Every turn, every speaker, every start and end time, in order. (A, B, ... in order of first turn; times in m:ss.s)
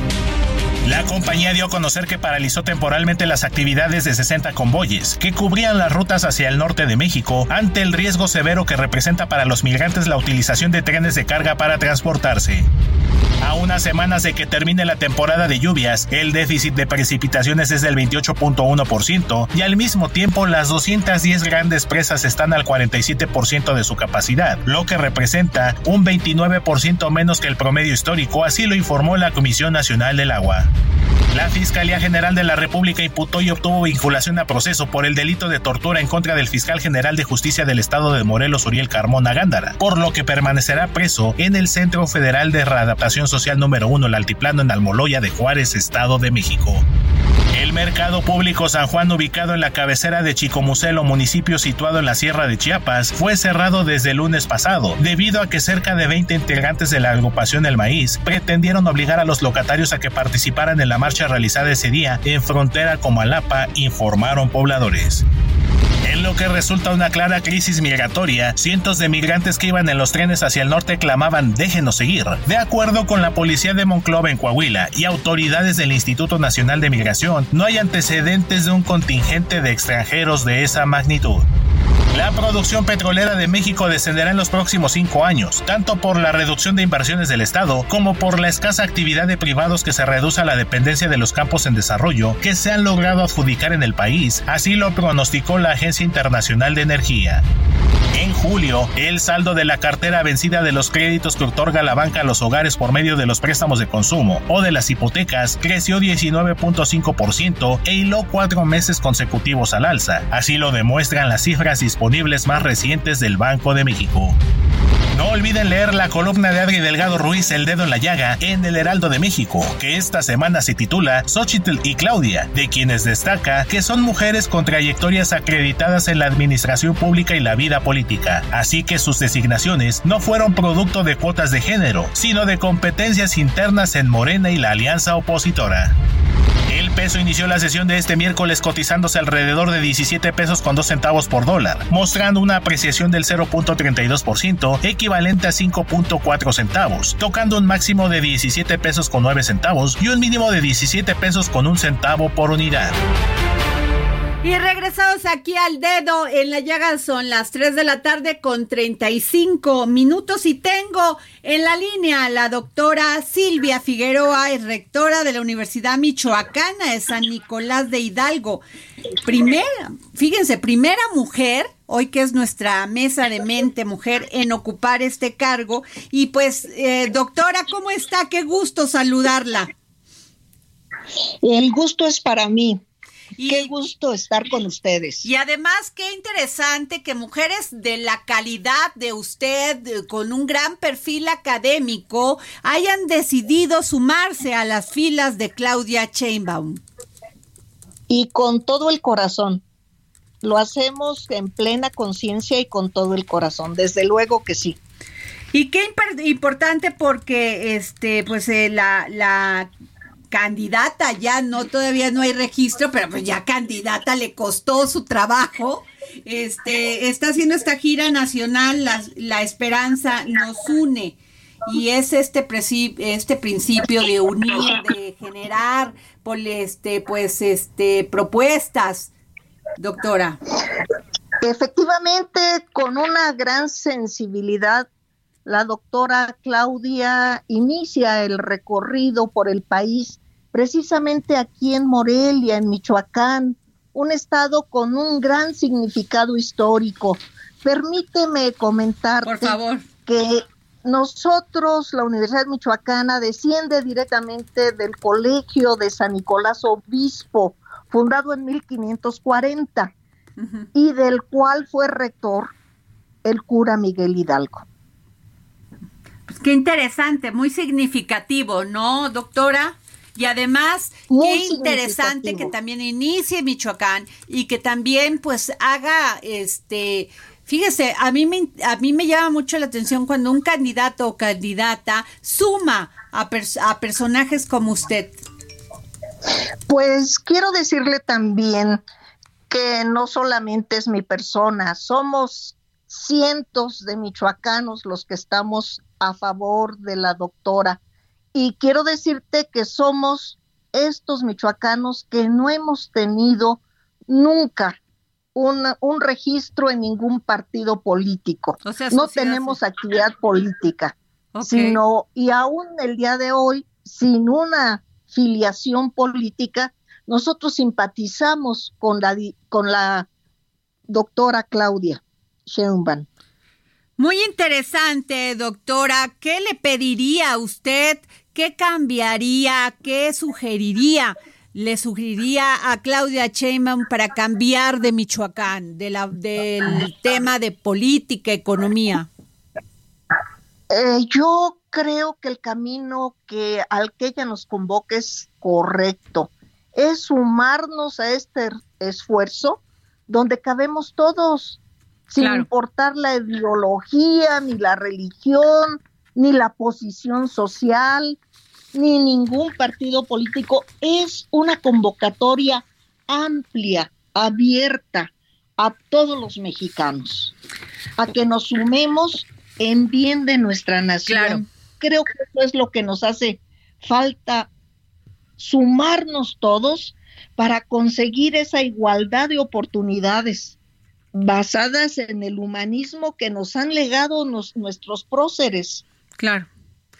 0:00.8-0:12.7 A
0:13.4-0:30.7 A
0:31.3-0:46.8 A
0:47.5-1:05.2 A
1:06.0-1:21.4 A
1:22.1-1:37.4 A
1:38.1-1:54.4 A
1:55.1-2:15.9 A
2:16.7-2:33.0 A
2:34.4-2:48.6 B
2:49.2-2:59.7 B
3:01.4-3:02.8 C
3:03.4-3:03.7 B
3:03.5-3:05.3 C
3:05.2-3:16.8 B
3:18.1-3:19.6 C
3:20.4-3:24.8 C
3:25.5-3:29.7 B
3:30.3-3:49.1 B
3:49.8-3:50.4 B
3:51.4-3:54.9 C
3:55.4-4:19.9 C
4:09.2-4:09.8 B
4:20.7-4:22.5 C
4:23.2-4:24.6 C
4:26.3-4:45.2 B
4:31.1-4:32.5 C
4:46.7-4:48.8 C
4:49.5-4:57.8 C
4:58.3-5:04.8 C
5:05.3-5:20.1 C
5:08.6-5:09.6 B
5:11.3-5:11.8 B
5:20.9-5:23.1 C
5:24.0-5:39.1 B
5:40.7-5:58.2 C
5:52.2-5:52.5 B
5:58.7-6:07.3 C
6:08.0-6:14.5 C
6:11.0-6:11.4 B
6:15.4-6:20.5 C
6:21.1-6:25.8 C
6:26.2-6:26.5 B